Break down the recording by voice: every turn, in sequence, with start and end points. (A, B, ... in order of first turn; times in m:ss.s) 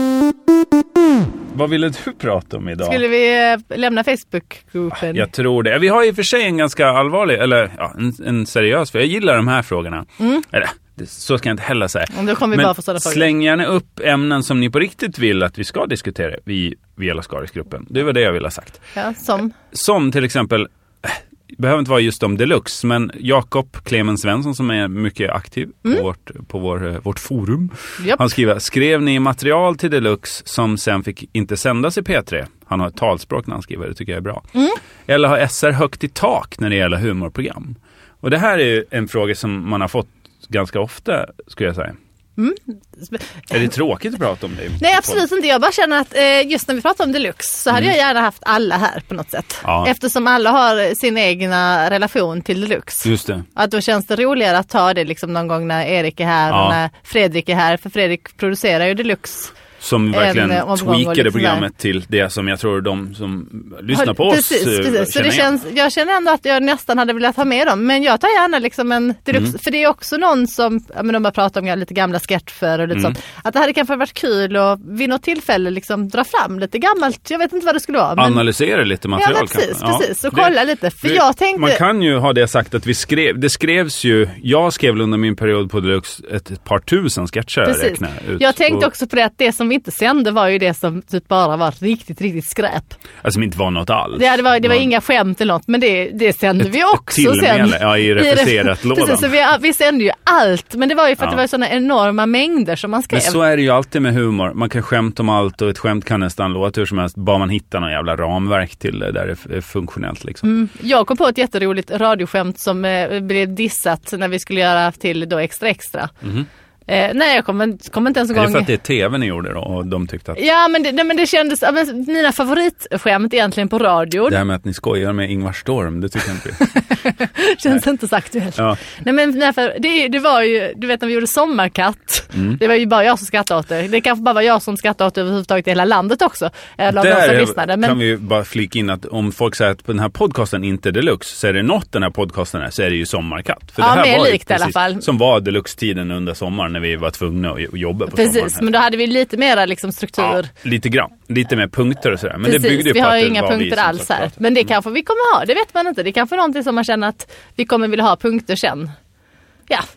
0:01.5-0:03.0 A
0:02.8-0:05.3 B
0:04.9-0:18.8 A
0:10.2-0:10.4 B
0:12.1-0:13.3 B
0:19.0-0:19.5 B
0:19.7-0:34.4 A
0:35.1-0:42.0 A
0:42.4-0:43.4 B
0:43.5-0:45.2 A
0:44.8-0:59.5 B
0:49.6-0:49.9 A
0:53.0-0:53.4 A
0:56.5-0:56.8 A
0:59.8-1:05.5 A
1:00.1-1:01.7 B
1:03.9-1:18.4 B
1:18.2-1:28.9 A
1:19.2-1:21.8 B
1:27.6-1:33.0 B
1:33.2-1:34.9 A
1:34.2-1:43.4 B
1:36.6-1:39.3 A
1:43.1-1:50.4 A
1:50.4-1:56.1 B
1:56.9-1:58.7 B
1:58.3-2:00.4 A
2:00.4-2:04.4 B
2:04.3-2:06.6 A
2:06.6-2:18.0 B
2:12.3-2:12.6 A
2:16.9-2:28.7 A
2:23.8-2:25.0 B
2:28.1-2:30.5 B
2:30.2-2:34.3 A
2:32.4-2:38.9 B